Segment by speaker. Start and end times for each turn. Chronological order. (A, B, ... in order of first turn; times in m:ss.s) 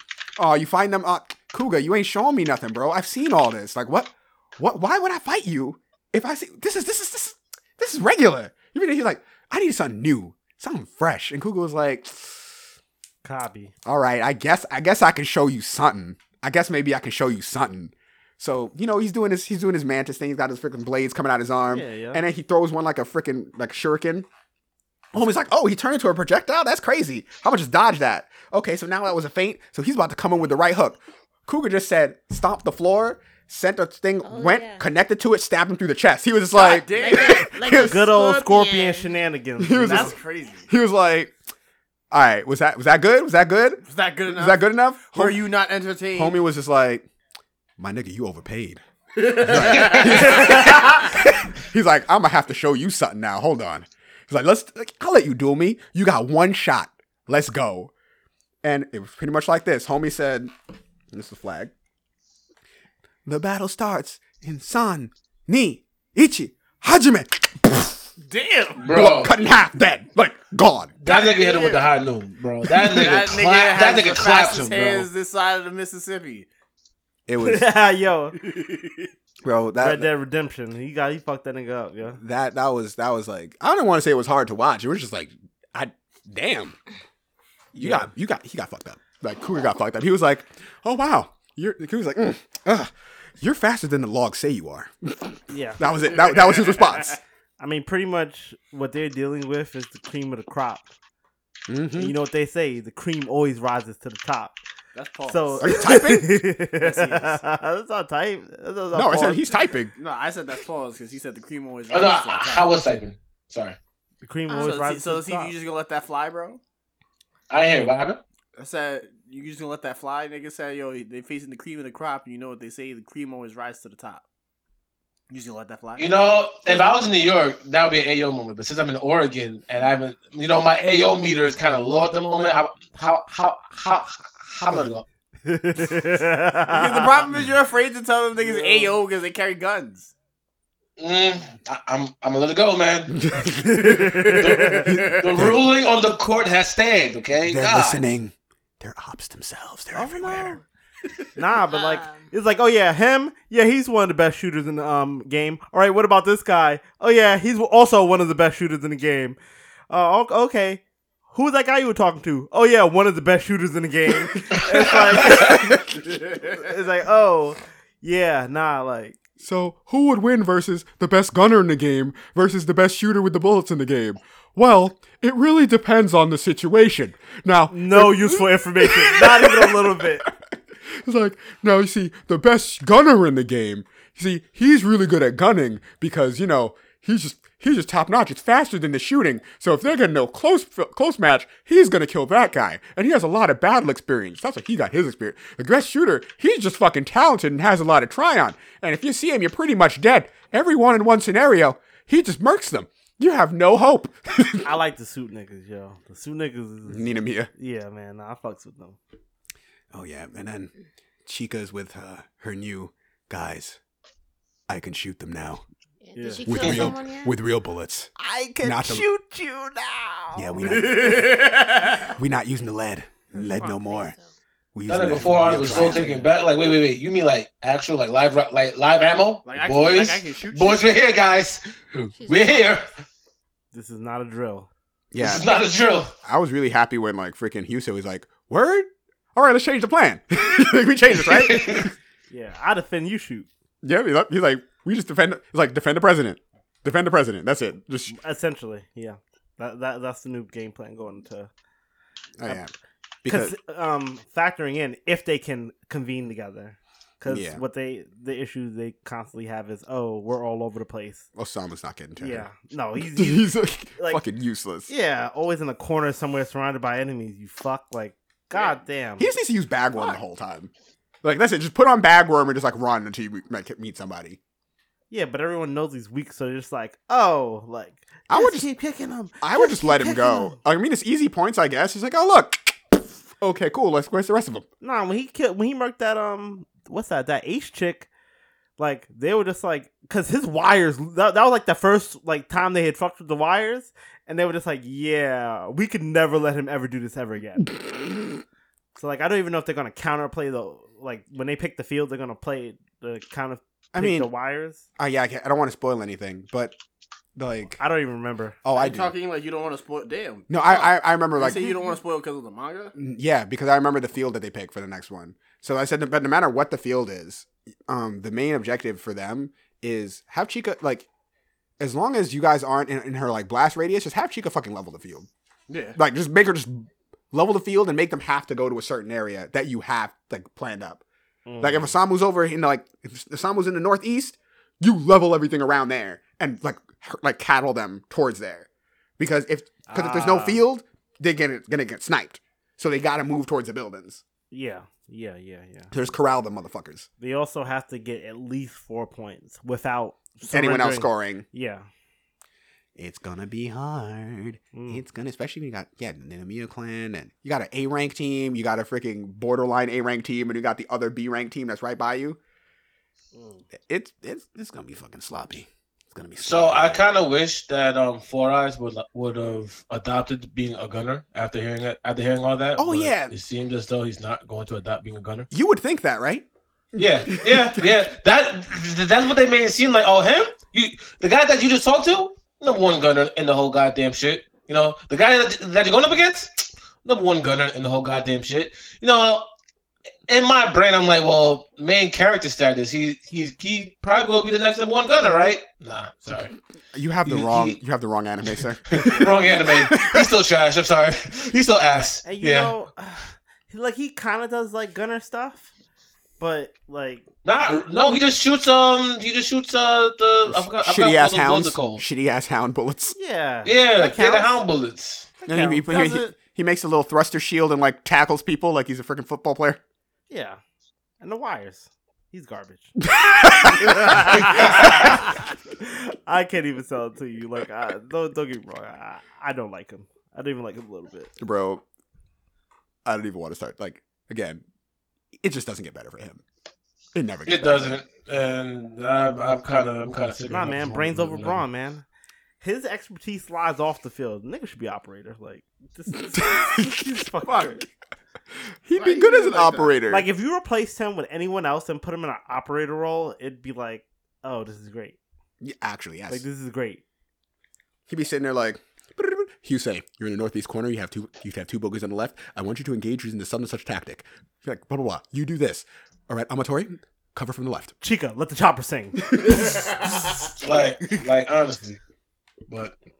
0:00.4-0:12.6 A
0:13.2-0:13.7 B
0:13.8-0:24.3 A
0:21.7-0:22.2 B
0:25.1-0:38.1 A
0:34.2-0:34.9 C
0:36.5-0:37.6 D
0:36.9-0:39.1 C
0:37.7-0:40.1 B
0:39.6-0:41.3 A
0:39.8-0:40.7 D
0:42.1-0:45.4 A
0:43.8-0:46.4 D
0:46.1-0:47.1 A
0:47.8-0:57.9 A
0:49.2-0:51.1 D
0:58.6-1:00.5 A
1:01.1-1:01.7 A
1:03.2-1:08.1 A
1:08.3-1:08.9 D
1:08.8-1:09.3 E
1:08.9-1:10.9 A
1:11.0-1:15.1 E
1:11.0-1:11.8 D
1:12.8-1:16.5 D
1:17.3-1:17.7 A
1:17.4-1:18.4 B
1:18.4-1:19.1 D
1:19.4-1:20.1 A
1:19.8-1:22.2 B
1:22.2-1:26.8 A
1:27.7-1:37.2 A
1:35.5-1:35.8 B
1:36.1-1:37.1 D
1:37.6-1:40.9 B
1:41.7-1:42.1 A
1:42.0-1:44.6 B
1:44.9-1:45.8 D
1:45.3-1:49.5 B
1:45.6-1:46.4 A
1:46.8-1:47.4 D
1:48.9-1:49.9 A
1:50.0-1:52.7 D
1:51.9-1:53.8 E
1:54.2-1:55.5 B
1:54.5-1:54.8 C
1:54.5-1:56.6 D
1:57.5-1:58.2 E
1:58.6-2:04.2 D
2:05.3-2:06.1 D
2:06.0-2:15.0 E
2:15.4-2:17.3 B
2:16.7-2:20.1 D
2:18.4-2:19.0 B
2:21.0-2:23.4 E
2:23.1-2:24.1 A
2:23.8-2:24.6 B
2:24.1-2:25.2 D
2:24.2-2:28.0 E
2:27.4-2:30.6 A
2:29.9-2:30.6 B
2:31.4-2:39.4 B
2:31.7-2:32.3 C
2:39.9-2:49.2 B
2:45.4-2:45.8 A
2:49.4-3:00.3 A
2:57.7-3:00.2 B
3:00.9-3:24.7 A
3:24.6-3:29.0 B
3:26.9-3:27.5 A
3:29.9-3:30.7 A
3:31.2-3:33.8 A
3:34.7-3:35.6 A
3:36.0-3:37.3 C
3:36.1-3:36.5 D
3:36.4-3:39.1 A
3:38.2-3:40.7 B
3:40.3-3:41.4 A
3:40.6-3:42.2 D
3:42.1-3:44.1 A
3:43.3-3:44.3 C
3:44.7-3:46.1 A
3:44.9-3:52.8 E
3:45.6-3:46.2 B
3:49.4-3:50.8 D
3:52.2-3:52.7 C
3:53.7-3:54.7 B
3:55.1-3:55.5 A
3:55.2-3:56.1 E
3:56.2-4:01.9 A
4:01.3-4:01.9 E
4:02.3-4:03.5 B
4:03.8-4:08.1 A
4:08.1-4:11.5 B
4:12.4-4:12.7 A
4:13.2-4:13.6 A
4:13.3-4:21.3 B
4:17.3-4:17.6 A
4:21.3-4:24.9 A
4:22.2-4:24.2 B
4:24.9-4:29.3 B
4:29.2-4:30.7 A
4:31.2-4:34.4 A
4:35.1-4:40.6 B
4:38.3-4:38.7 A
4:39.4-4:44.6 A
4:44.8-4:48.1 B
4:48.8-4:57.7 B
4:58.9-5:04.8 B
5:03.9-5:04.3 A
5:05.0-5:06.7 A
5:07.3-5:07.8 A
5:07.8-5:08.6 B
5:08.6-5:09.1 A
5:08.7-5:12.9 D
5:10.5-5:11.6 A
5:11.5-5:12.0 C
5:12.9-5:21.1 A
5:21.8-5:25.3 A
5:25.7-5:26.0 D
5:25.9-5:31.0 A
5:31.5-5:31.9 B
5:31.6-5:38.7 A
5:39.2-5:44.2 A
5:39.9-5:40.6 B
5:44.5-5:45.9 B
5:45.9-5:47.1 A
5:47.2-5:51.9 B
5:50.5-5:51.4 A
5:53.0-6:02.4 A
5:54.7-5:55.0 B
6:03.3-6:03.6 B
6:03.9-6:07.0 A
6:06.4-6:15.5 E
6:12.8-6:13.3 A
6:15.5-6:17.9 A
6:17.0-6:29.5 E
6:30.3-6:36.5 E
6:36.9-6:40.3 A
6:37.2-6:37.8 E
6:38.9-6:42.7 E
6:42.2-6:45.7 B
6:46.4-6:47.2 B
6:47.4-6:52.0 E
6:50.5-6:53.2 A
6:53.2-6:54.6 B
6:53.6-6:55.3 E
6:55.4-6:56.4 D
6:55.5-6:59.8 A
7:00.3-7:00.6 B
7:01.2-7:03.0 B
7:03.1-7:04.2 A
7:04.1-7:05.2 B
7:05.8-7:11.3 B
7:11.4-7:11.8 A
7:13.0-7:14.6 A
7:15.4-7:16.4 A
7:17.1-7:18.0 A
7:17.4-7:21.6 E
7:20.5-7:22.0 B
7:22.6-7:27.8 B
7:26.4-7:27.0 A
7:27.4-7:27.8 D
7:28.8-7:30.3 A
7:28.9-7:29.9 D
7:30.1-7:35.2 B
7:35.6-7:36.4 A
7:36.3-7:37.0 B
7:38.1-7:47.9 A
7:48.0-7:49.2 B
7:49.3-7:49.6 A
7:49.6-7:50.1 D
7:50.6-7:52.0 E
7:52.7-7:52.9 E